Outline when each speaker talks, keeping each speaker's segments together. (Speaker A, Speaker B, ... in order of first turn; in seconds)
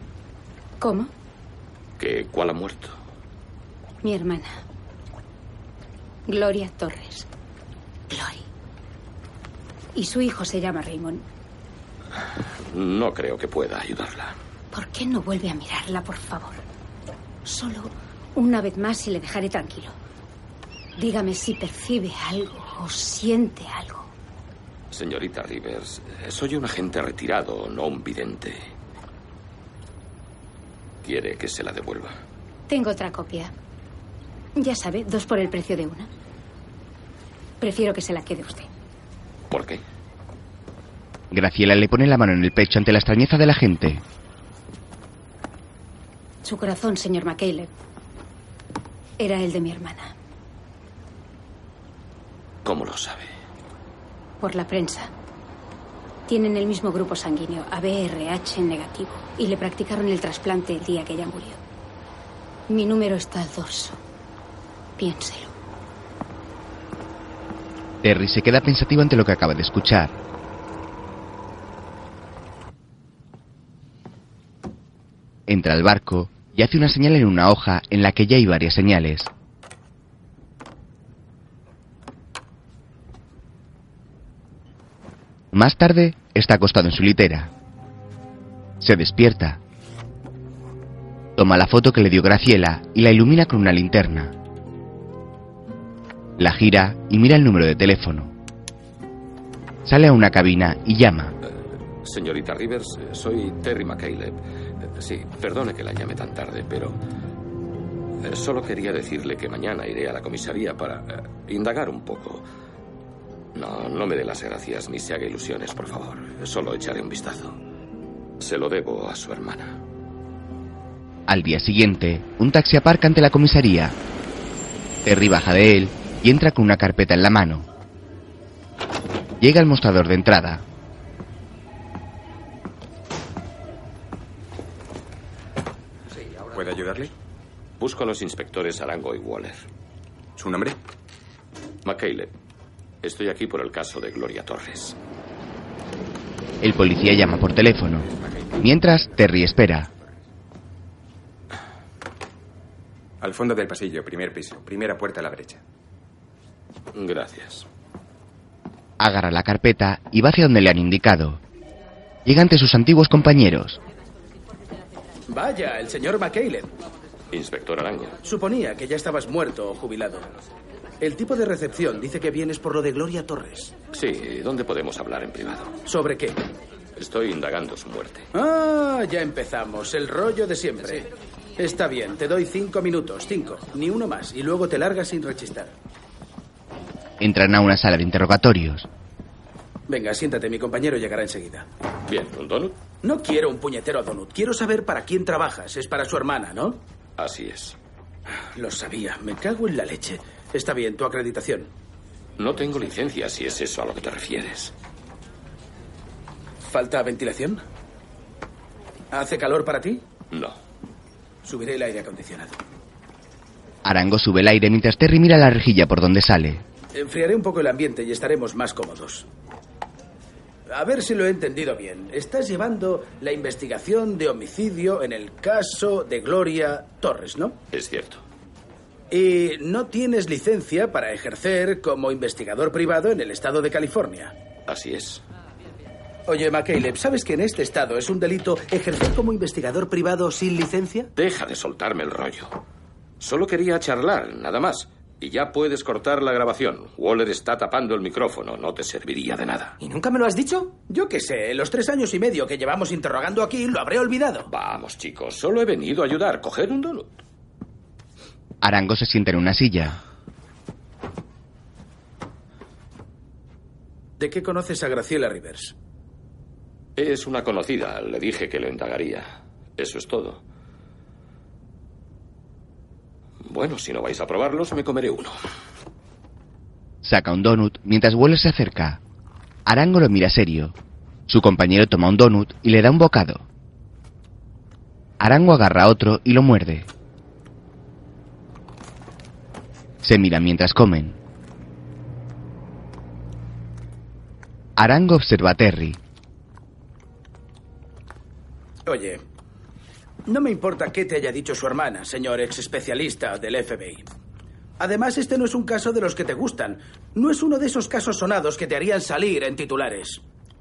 Speaker A: 0.8-1.1, 4.0-4.5, 6.3-7.2, 8.1-8.5, 9.9-11.2, 14.7-16.6, 17.4-19.9, 21.0-24.1, 32.7-33.5, 34.5-36.1, 37.6-38.7, 46.4-47.7, 49.2-50.1, 54.4-55.1, 56.3-61.6, 62.7-64.0, 65.0-65.5
Speaker B: 2.0-3.0, 12.7-14.3, 24.9-28.6, 31.0-32.1, 39.5-39.8, 52.6-53.3, 102.0-107.0, 108.2-112.4, 113.5-117.6, 118.4-119.8, 137.8-139.6, 141.8-142.3, 143.0-144.9, 156.9-157.7, 167.3-168.2, 173.9-175.7, 176.9-178.3, 192.1-192.8, 197.2-197.8, 202.4-204.7, 210.3-210.6, 227.7-228.2, 234.7-235.2, 241.2-242.5, 243.2-249.8, 254.5-257.2, 266.9-270.4, 273.4-275.3
Speaker C: 41.3-44.0, 68.0-70.1, 75.5-79.3, 85.5-87.5, 88.8-89.6, 91.3-94.3, 96.4-98.3, 99.8-101.3, 121.3-124.0, 125.0-127.7, 129.4-130.6, 146.6-149.9, 159.0-161.4, 162.2-163.8, 187.2-188.9, 213.8-216.6, 258.6-260.0, 277.0-279.0, 279.6-280.7, 281.3-283.4, 285.2-286.9, 290.0-291.2, 294.8-296.0
Speaker D: 136.5-137.1, 140.3-140.8, 153.2-155.6
Speaker E: 165.3-166.7, 168.2-170.3, 171.0-173.7, 175.8-176.4, 178.3-185.7, 189.9-191.7, 193.0-196.8, 198.5-201.7, 206.6-207.6, 209.1-210.0, 211.4-212.6, 216.9-219.2, 220.7-227.6, 229.1-234.3, 236.3-241.1, 250.9-254.5, 264.2-265.7, 298.9-299.2, 300.2-304.0, 304.8-310.2